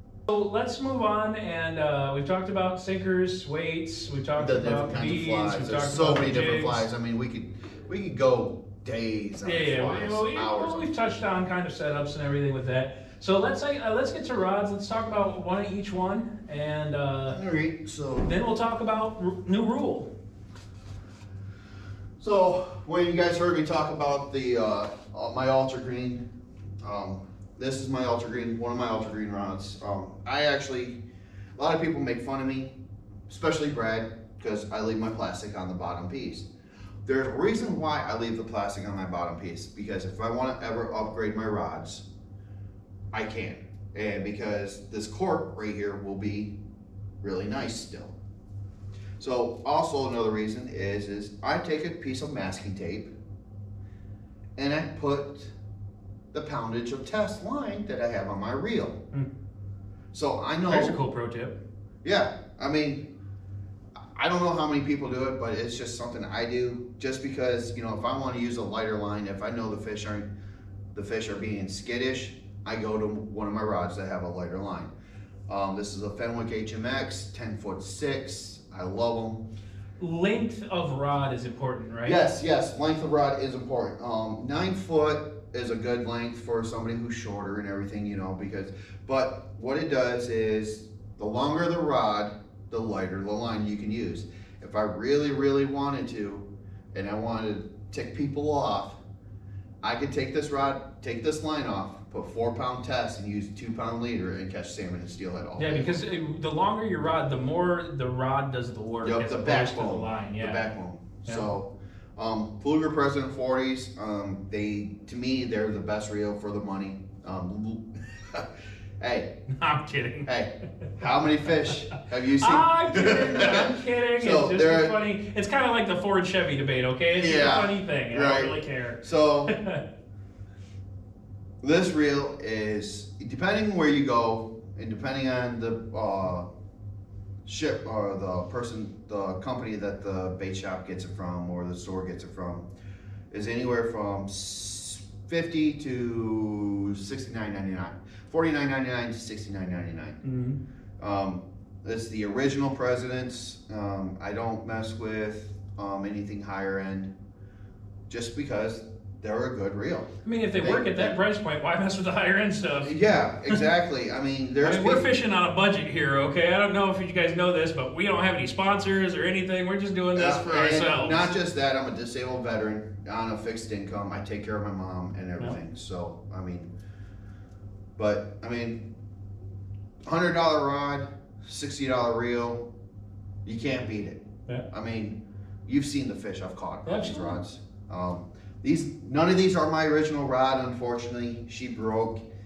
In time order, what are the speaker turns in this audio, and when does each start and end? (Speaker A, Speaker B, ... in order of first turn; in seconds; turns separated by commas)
Speaker A: 0.3-6.9, Speaker B: 4.4-10.9, Speaker A: 9.4-17.4, Speaker B: 17.3-18.3, Speaker A: 18.2-20.1, Speaker B: 22.2-26.2, Speaker B: 26.8-31.0, Speaker B: 31.6-32.8, Speaker B: 33.3-36.5, Speaker B: 37.0-42.0, Speaker B: 43.1-46.6, Speaker B: 47.2-48.1, Speaker B: 49.2-53.1, Speaker B: 54.6-55.5, Speaker B: 56.3-59.0, Speaker B: 60.1-61.0, Speaker A: 60.7-61.6, Speaker B: 62.0-63.1, Speaker B: 64.2-70.3, Speaker B: 70.9-74.9, Speaker B: 75.5-79.5, Speaker A: 80.0-82.2, Speaker B: 82.0-99.0, Speaker B: 99.8-106.0, Speaker A: 105.6-110.6, Speaker B: 109.0-119.4, Speaker A: 119.5-120.3, Speaker B: 120.2-125.0, Speaker A: 122.3-129.8, Speaker B: 127.2-129.6, Speaker B: 131.6-136.5, Speaker B: 137.4-142.7, Speaker B: 143.3-150.2, Speaker A: 150.2-150.6, Speaker B: 151.0-157.1, Speaker B: 158.1-161.2, Speaker A: 160.2-162.9, Speaker B: 162.8-165.1, Speaker A: 164.6-171.3, Speaker B: 170.1-176.7, Speaker B: 178.0-178.9, Speaker B: 180.1-182.7, Speaker B: 183.4-192.2, Speaker A: 186.8-187.4